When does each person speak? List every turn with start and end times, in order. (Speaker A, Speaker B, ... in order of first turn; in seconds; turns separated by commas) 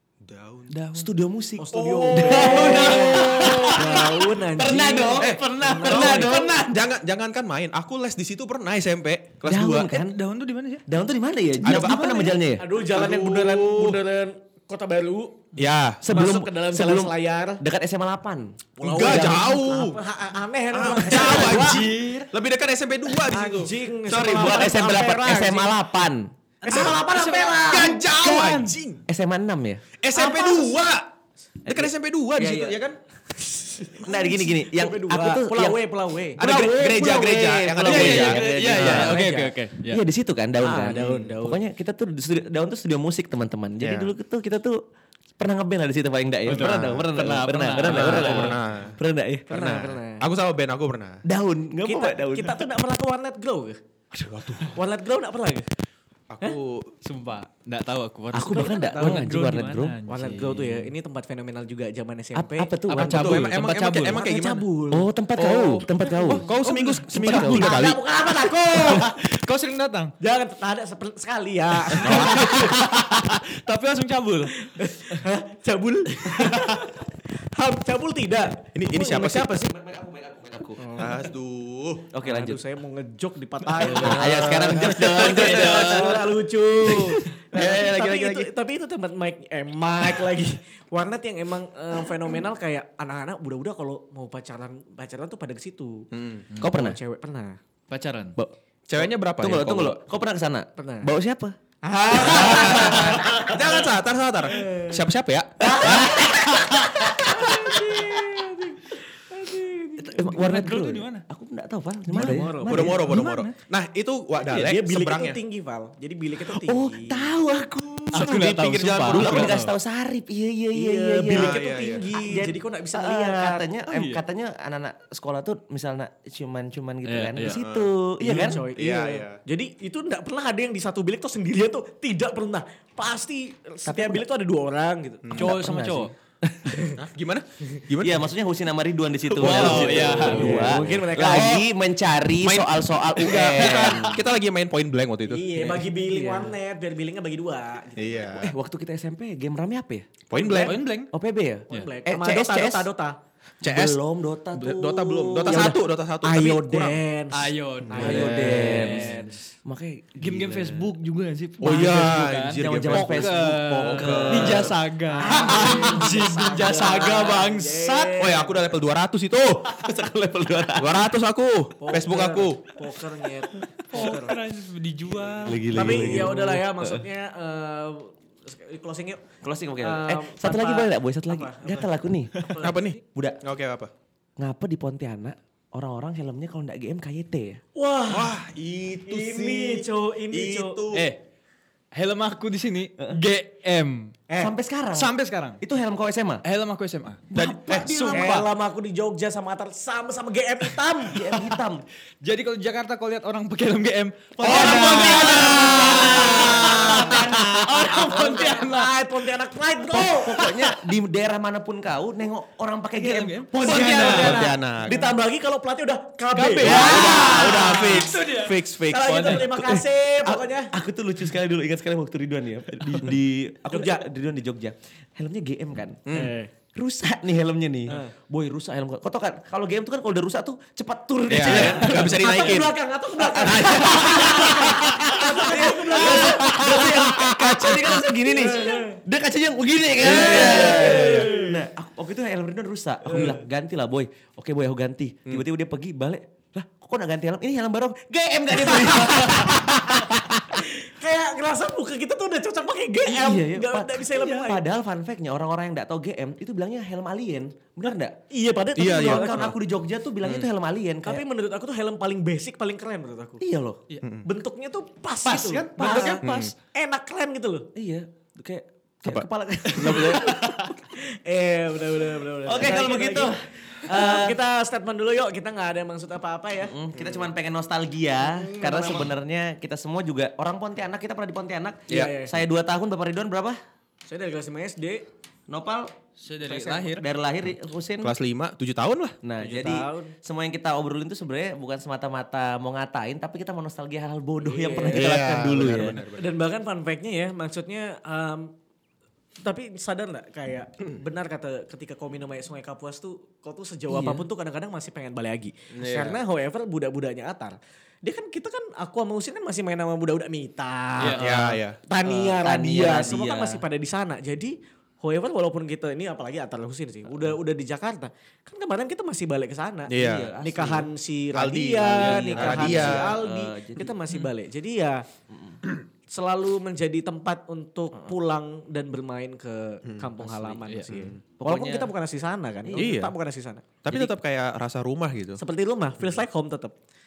Speaker A: 0.2-0.7, Speaker B: 0.7-1.1, Speaker C: 0.9-5.4, Speaker D: 1.6-6.6, Speaker A: 1.7-4.0, Speaker B: 2.5-3.6, Speaker A: 5.2-9.9, Speaker B: 5.2-6.8, Speaker C: 5.9-6.5, Speaker C: 9.4-10.2, Speaker B: 9.9-10.8, Speaker C: 10.8-12.7, Speaker A: 11.6-14.0, Speaker B: 11.7-12.3, Speaker D: 12.6-15.4, Speaker A: 15.6-16.1, Speaker C: 16.0-19.5, Speaker D: 16.1-17.6, Speaker D: 18.8-21.9, Speaker A: 18.8-20.0, Speaker A: 20.7-23.8, Speaker B: 21.0-22.3, Speaker D: 23.2-25.8, Speaker C: 24.1-26.3, Speaker D: 26.6-28.0, Speaker B: 26.6-28.8, Speaker A: 27.6-29.0, Speaker C: 29.1-29.8, Speaker A: 30.0-31.1, Speaker D: 30.1-30.8, Speaker C: 31.6-31.9, Speaker A: 31.7-33.0, Speaker D: 32.4-32.8, Speaker D: 33.4-39.5, Speaker C: 34.0-35.8, Speaker A: 36.4-39.2, Speaker B: 37.8-40.0, Speaker C: 37.8-39.2, Speaker C: 39.9-44.8, Speaker D: 40.6-41.6, Speaker A: 40.9-41.3, Speaker A: 43.8-44.1, Speaker C: 45.4-49.6, Speaker A: 46.5-47.1, Speaker B: 46.5-48.6, Speaker A: 47.8-49.0, Speaker D: 49.5-50.2, Speaker A: 49.5-51.2, Speaker C: 51.2-52.7, Speaker D: 51.8-53.8, Speaker A: 54.1-54.8, Speaker D: 54.7-55.6, Speaker A: 56.3-56.9, Speaker B: 57.0-60.9, Speaker C: 58.3-60.0, Speaker D: 58.5-59.2, Speaker D: 60.1-62.7, Speaker C: 62.3-63.5, Speaker B: 62.9-64.2, Speaker A: 63.0-64.7, Speaker D: 64.1-65.1, Speaker C: 64.9-66.4, Speaker A: 65.3-68.0, Speaker B: 66.0-67.7, Speaker D: 67.1-69.2, Speaker B: 68.7-70.1, Speaker D: 70.2-72.8, Speaker B: 71.9-74.7, Speaker A: 72.0-72.5, Speaker D: 74.7-79.7, Speaker A: 78.7-79.7, Speaker C: 79.6-81.1, Speaker D: 80.8-81.3, Speaker A: 81.0-82.1, Speaker C: 82.1-82.6, Speaker D: 82.2-96.1, Speaker A: 83.8-86.3, Speaker C: 83.8-86.2, Speaker C: 86.9-88.5, Speaker A: 87.6-88.2, Speaker A: 96.1-96.5, Speaker C: 96.6-97.0, Speaker D: 96.6-97.6, Speaker B: 97.9-98.4, Speaker C: 98.4-101.6, Speaker A: 98.9-100.0, Speaker D: 100.8-101.1, Speaker D: 101.8-103.8, Speaker A: 102.1-106.2, Speaker C: 102.2-103.2, Speaker B: 102.6-103.2, Speaker D: 104.5-105.0, Speaker C: 105.6-107.8, Speaker D: 105.6-106.4, Speaker B: 106.5-106.9, Speaker D: 106.9-110.3, Speaker B: 110.0-111.2, Speaker C: 110.1-113.1, Speaker D: 112.1-113.2, Speaker A: 112.6-115.4, Speaker B: 113.0-113.5, Speaker D: 114.5-117.3, Speaker C: 116.5-118.3, Speaker A: 118.1-119.6, Speaker B: 118.1-119.7, Speaker C: 119.1-121.6, Speaker D: 120.7-123.7, Speaker A: 121.3-122.1, Speaker C: 122.1-128.7, Speaker B: 123.9-124.2, Speaker B: 127.1-127.6, Speaker A: 127.4-129.4, Speaker D: 128.2-135.3, Speaker C: 133.8-134.2, Speaker A: 135.2-135.5, Speaker B: 135.4-136.1, Speaker C: 135.4-136.8, Speaker A: 136.9-138.2, Speaker C: 138.0-144.2, Speaker A: 139.3-141.7, Speaker B: 139.4-140.8, Speaker D: 139.4-141.7, Speaker A: 142.4-145.8, Speaker B: 143.6-144.1, Speaker D: 145.3-148.4, Speaker C: 145.6-146.5, Speaker A: 147.9-148.5, Speaker C: 148.4-150.1, Speaker A: 150.3-150.8, Speaker D: 150.3-150.8, Speaker B: 150.5-151.1, Speaker C: 151.1-152.9, Speaker D: 151.7-153.2, Speaker A: 153.6-154.0, Speaker C: 153.6-155.8, Speaker A: 154.5-157.0, Speaker D: 155.4-159.3, Speaker B: 157.3-159.4, Speaker A: 157.9-158.2, Speaker C: 158.0-160.9, Speaker B: 160.2-168.2, Speaker A: 161.6-164.8, Speaker C: 161.7-164.7, Speaker D: 165.1-168.7, Speaker A: 168.2-169.8, Speaker C: 169.7-171.1, Speaker A: 170.8-172.6, Speaker D: 171.8-174.4, Speaker B: 173.9-176.3, Speaker C: 175.4-177.0, Speaker D: 175.7-179.2, Speaker A: 175.7-176.4, Speaker C: 179.4-182.3, Speaker D: 179.8-182.9, Speaker A: 182.6-183.9, Speaker C: 184.4-187.6, Speaker D: 187.7-188.4, Speaker A: 188.1-191.1, Speaker D: 189.1-190.8, Speaker B: 190.9-191.2, Speaker B: 191.9-194.1, Speaker C: 194.3-196.4, Speaker B: 194.9-195.6, Speaker B: 196.4-197.2, Speaker C: 197.3-198.4, Speaker A: 197.3-198.5, Speaker D: 198.1-201.3, Speaker C: 201.1-201.8, Speaker B: 202.2-209.0, Speaker D: 204.4-210.4, Speaker A: 204.4-207.9, Speaker C: 204.4-208.0, Speaker C: 209.9-214.5, Speaker B: 210.4-210.8, Speaker B: 213.0-214.6, Speaker D: 213.6-220.7, Speaker A: 213.7-215.0, Speaker B: 216.3-219.5, Speaker A: 216.6-219.4, Speaker C: 216.6-218.0, Speaker C: 219.3-226.0, Speaker D: 223.7-224.1, Speaker A: 226.1-226.3, Speaker D: 226.1-226.5, Speaker C: 226.7-232.7, Speaker A: 231.3-232.7, Speaker D: 231.4-237.2, Speaker C: 233.2-250.6, Speaker A: 233.5-235.2, Speaker A: 236.0-237.7, Speaker D: 238.2-239.0, Speaker A: 240.0-241.3, Speaker D: 240.0-241.6, Speaker D: 243.1-243.4, Speaker A: 243.1-243.4, Speaker D: 248.7-254.6, Speaker C: 253.1-258.1, Speaker D: 258.3-259.5, Speaker A: 258.8-259.5, Speaker C: 258.9-261.2, Speaker A: 260.2-260.5, Speaker D: 261.0-263.4, Speaker C: 263.4-263.8, Speaker A: 264.0-264.3, Speaker D: 264.2-267.7, Speaker B: 265.2-266.5, Speaker C: 265.8-266.2, Speaker A: 266.2-266.5, Speaker C: 267.7-270.7, Speaker A: 269.0-270.3, Speaker D: 269.8-270.2, Speaker D: 270.9-276.8, Speaker C: 272.4-274.4, Speaker C: 276.6-283.6, Speaker A: 276.9-277.3, Speaker D: 278.2-279.1, Speaker D: 281.9-282.4, Speaker D: 284.0-285.0, Speaker C: 285.5-285.9, Speaker B: 286.2-287.0, Speaker D: 286.4-287.0, Speaker C: 286.9-288.1, Speaker A: 288.0-289.2, Speaker C: 289.2-296.0, Speaker D: 289.4-290.1, Speaker D: 294.4-295.1, Speaker A: 294.9-296.3, Speaker D: 296.1-298.5, Speaker D: 299.4-311.3, Speaker C: 303.9-304.2, Speaker A: 305.7-306.2, Speaker B: 311.0-311.6, Speaker A: 311.0-311.8, Speaker D: 311.9-325.0, Speaker C: 312.0-313.6, Speaker A: 319.9-320.3, Speaker C: 319.9-320.9, Speaker A: 321.3-323.2, Speaker B: 321.9-322.4, Speaker C: 322.1-323.9, Speaker C: 325.3-325.6, Speaker D: 326.1-334.1, Speaker B: 330.2-331.1, Speaker C: 331.4-331.9, Speaker A: 332.7-333.1, Speaker A: 333.8-335.4, Speaker D: 335.4-336.7